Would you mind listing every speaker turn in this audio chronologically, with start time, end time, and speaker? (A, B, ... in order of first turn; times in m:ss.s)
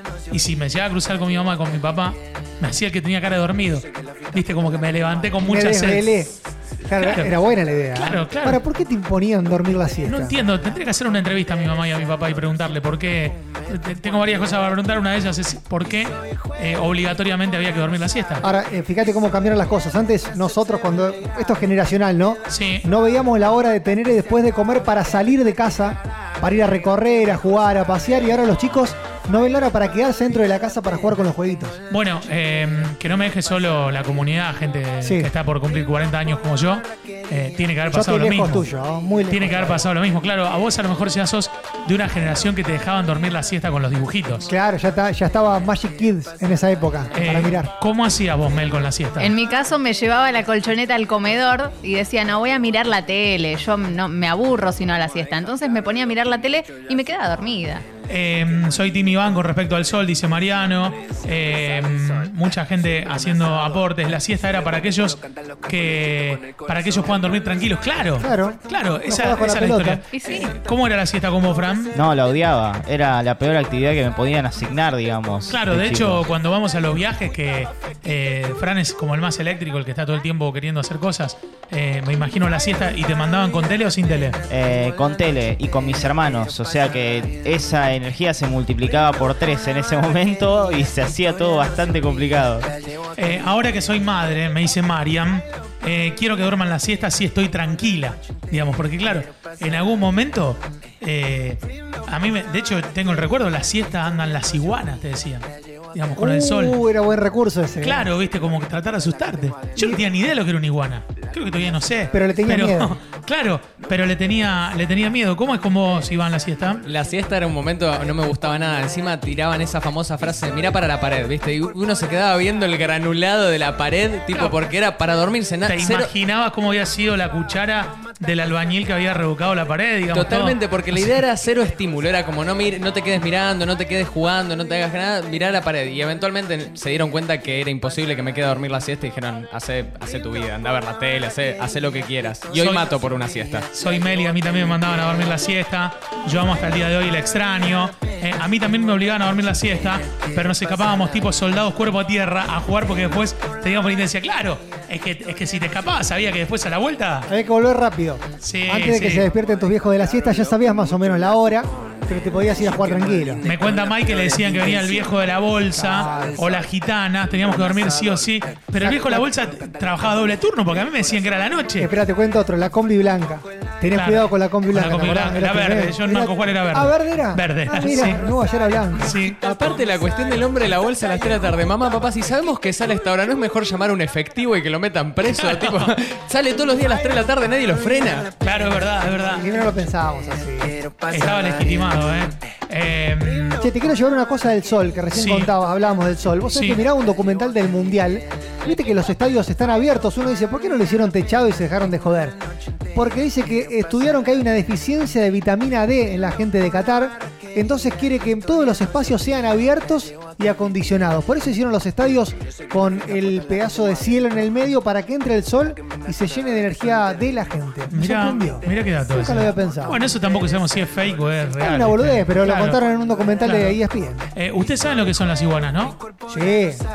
0:00.3-0:06.1 A
0:05.4-0:06.3 B
0:06.8-0:10.4 B
0:07.0-0:07.3 A
0:07.9-0:08.6 A
0:10.1-0:18.4 A
0:18.4-0:31.8 B
0:22.5-0:22.8 A
0:31.9-0:38.7 A
0:35.0-0:35.3 B
0:37.9-0:39.8 B
0:39.3-0:44.5 A
0:44.5-0:47.7 B
0:47.1-0:49.3 A
0:49.2-0:57.8 C
0:58.1-1:11.9 A
1:08.2-1:10.0 B
1:10.1-1:10.5 C
1:11.9-1:16.3 D
1:15.5-1:24.4 A
1:24.5-1:32.7 D
1:33.2-1:46.8 A
1:46.2-1:48.1 B
1:47.8-1:56.8 A
1:52.1-1:53.0 B
1:56.8-2:06.1 E
2:05.6-2:11.2 A
2:10.1-2:23.7 E
2:22.5-2:22.9 A
2:23.7-2:37.3 A
2:37.3-2:43.4 B
2:38.4-2:39.3 A
2:43.4-2:51.9 A
2:45.8-2:46.4 B
2:48.8-2:49.3 B
2:51.8-2:59.2 B
2:53.9-2:58.2 A
2:59.0-2:59.4 A
2:59.0-3:08.3 E
3:05.2-3:05.9 A
3:08.4-3:09.5 A
3:09.3-3:10.8 B
3:11.1-3:13.6 A
3:13.6-3:22.4 B
3:15.1-3:15.5 A
3:16.5-3:16.8 A
3:22.9-3:40.0 B
3:37.9-3:42.8 A
3:41.6-3:44.2 B
3:43.4-3:43.8 A
3:44.3-3:46.0 A
3:46.3-3:46.8 B